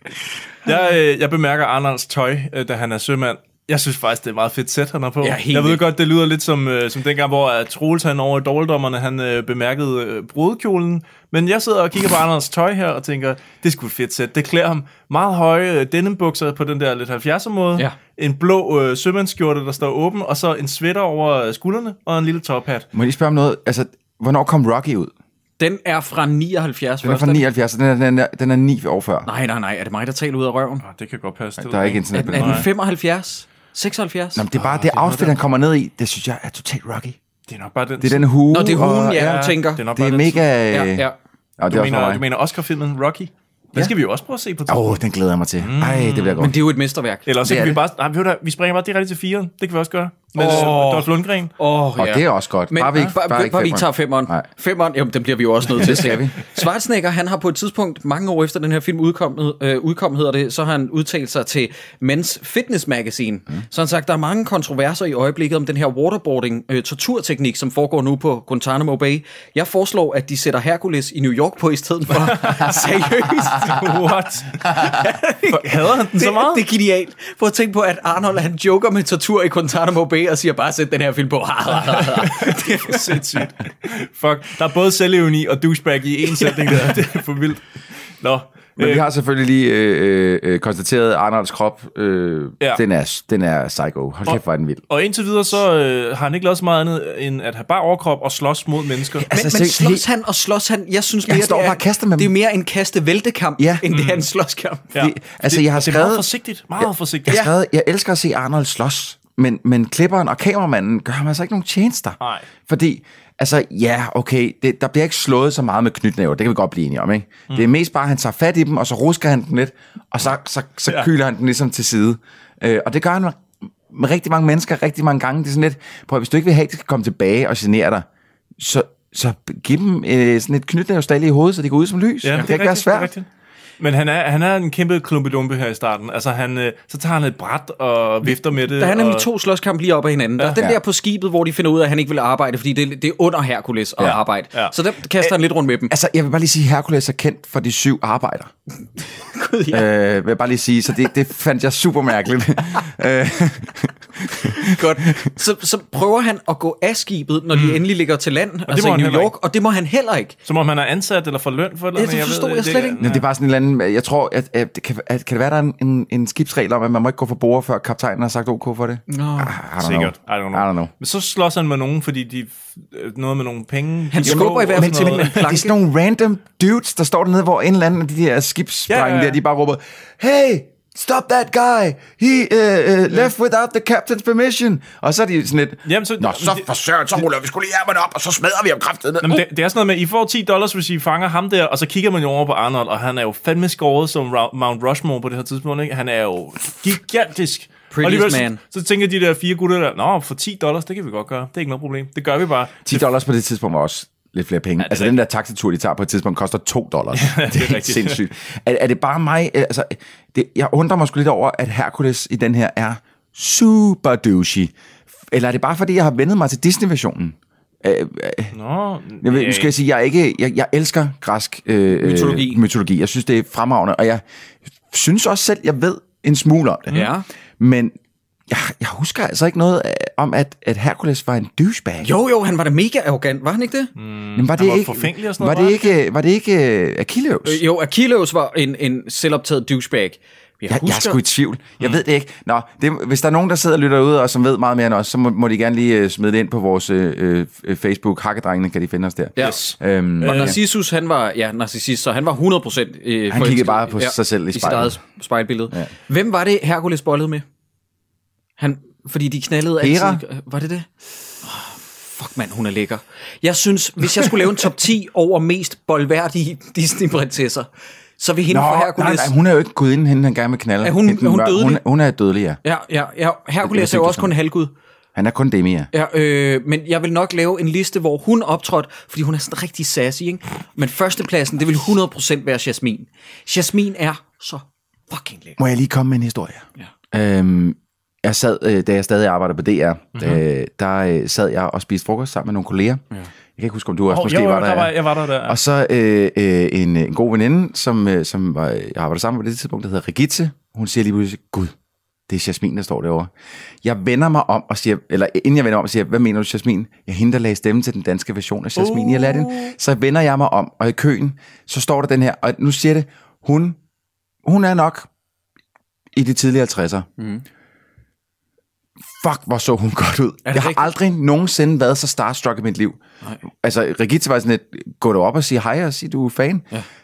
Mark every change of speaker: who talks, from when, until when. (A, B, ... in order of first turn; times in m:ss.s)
0:00.6-0:22.9 A
0:05.2-0:05.8 B
0:22.9-0:25.1 C
0:25.6-0:27.4 B
0:27.0-0:29.3 C
0:29.2-0:30.8 B
0:30.8-0:32.7 A
0:31.6-0:32.7 C
0:32.1-0:34.4 B
0:34.3-0:37.2 C
0:34.5-0:35.3 A
0:37.5-0:38.3 A
0:38.0-0:41.0 C
0:38.5-0:39.8 B
0:39.1-0:40.5 A
0:40.7-0:41.2 B
0:41.6-0:42.2 C
0:41.7-0:45.0 A
0:44.7-0:46.5 C
0:45.6-0:46.5 A
0:46.4-0:47.2 B
0:47.2-0:51.5 A
0:47.4-0:47.8 C
0:50.3-1:13.8 B
0:52.0-0:54.4 C
0:55.7-0:56.4 C
1:12.1-1:14.9 A
1:14.7-1:23.3 B
1:15.4-1:16.6 A
1:21.9-1:27.7 A
1:26.4-1:27.0 B
1:28.2-1:29.0 A
1:28.8-1:34.8 C
1:34.3-1:39.3 A
1:39.2-1:40.0 C
1:39.3-1:44.9 B
1:41.2-1:42.3 C
1:43.6-1:43.8 C
1:43.9-1:44.3 A
1:44.9-1:47.4 A
1:45.0-1:46.2 C
1:46.8-2:08.0 C
1:52.2-1:52.4 A
2:08.6-2:13.1 C
2:12.2-2:13.3 A
2:13.8-2:19.2 A
2:18.7-2:25.9 B
2:24.0-2:24.7 A
2:25.9-2:28.5 C
2:29.2-2:29.9 B
2:29.7-2:35.3 C
2:34.6-2:40.3 B
2:37.5-2:37.8 A
2:38.7-2:39.3 A
2:40.4-2:43.2 A
2:42.0-2:43.0 B
2:43.0-2:50.9 C
2:49.1-2:49.5 B
2:49.8-2:55.5 A
2:54.1-2:55.7 B
2:54.2-3:09.4 C
2:58.9-2:59.4 A
3:05.8-3:06.7 A
3:09.2-3:23.0 A
3:17.9-3:18.6 B
3:22.8-3:34.7 C
3:24.8-3:25.2 A
3:27.1-3:28.2 A
3:35.3-3:38.5 C
3:38.5-3:39.7 A
3:39.2-3:44.2 C
3:41.9-3:42.6 B
3:44.9-3:47.1 C
3:46.9-3:47.2 B
3:47.6-3:47.9 C
3:48.5-3:52.1 C
3:52.0-3:53.9 B
3:54.0-3:56.0 A
3:54.4-3:57.6 C
3:57.4-4:01.2 B
4:00.7-4:10.6 C
4:09.4-4:10.6 A
4:10.2-4:17.4 B
4:13.3-4:15.0 C
4:18.6-4:20.9 B
4:19.8-4:20.2 C
4:21.4-4:29.3 B
4:28.5-4:32.6 C
4:30.8-4:31.8 B
4:32.6-4:34.7 B
4:33.6-4:34.3 C
4:35.1-4:35.9 C
4:35.9-4:45.6 B
4:45.6-4:53.0 C
4:50.2-4:50.4 A
4:53.6-5:01.7 C
4:54.1-4:55.6 A
5:02.3-5:03.3 C
5:03.8-5:13.8 C
5:08.8-5:09.7 A
5:14.4-5:15.1 C
5:16.1-5:17.0 C
5:17.2-5:17.4 B
5:19.2-5:23.0 C
5:20.4-5:20.9 B
5:23.5-5:26.7 C